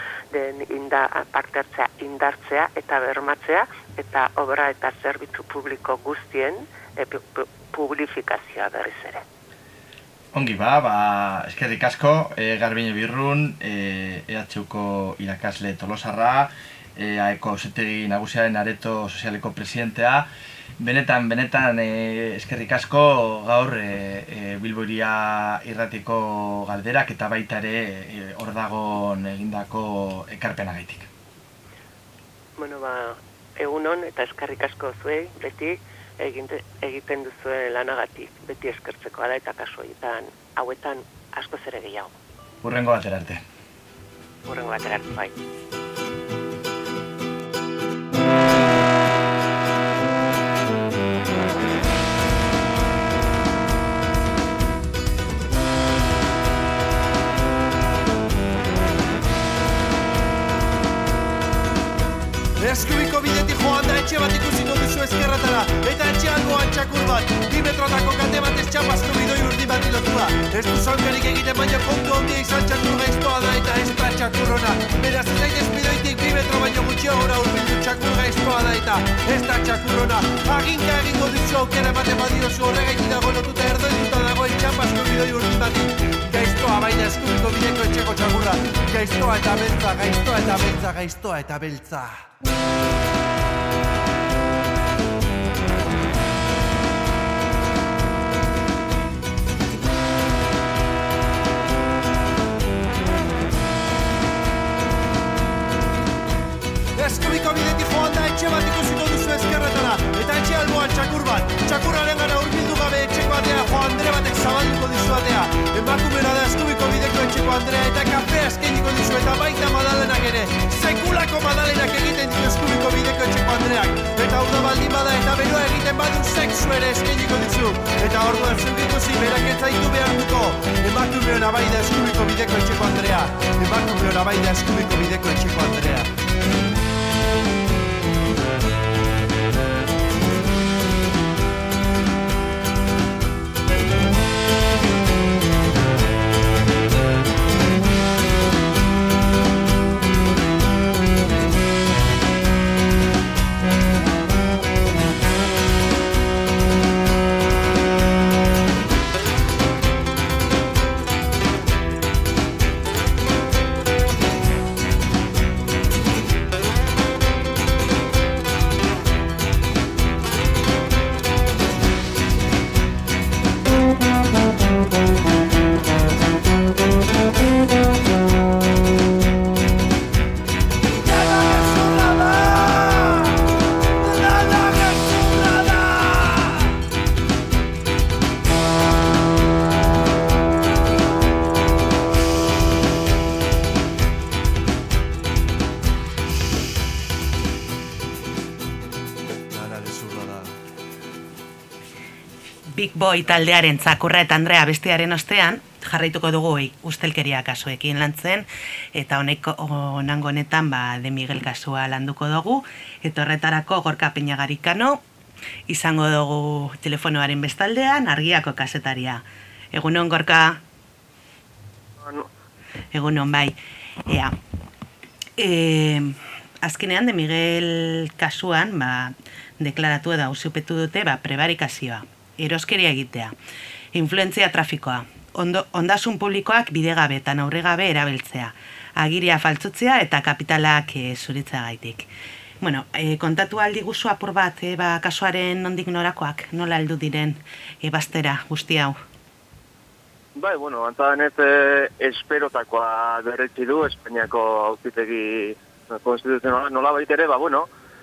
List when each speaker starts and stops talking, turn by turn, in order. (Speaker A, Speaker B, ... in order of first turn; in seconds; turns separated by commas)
Speaker A: 0.3-9.2, Speaker B: 10.3-20.3, Speaker B: 20.8-31.1, Speaker A: 32.6-42.1, Speaker B: 42.6-43.4, Speaker A: 44.5-45.4, Speaker C: 62.6-92.3, Speaker C: 107.0-136.1, Speaker C: 181.2-183.1, Speaker C: 184.3-186.0, Speaker D: 202.8-215.0, Speaker D: 215.7-220.6, Speaker E: 222.0-222.3, Speaker D: 222.9-224.4, Speaker D: 225.4-233.3, Speaker D: 233.9-242.1, Speaker D: 242.6-249.0, Speaker E: 250.4-257.7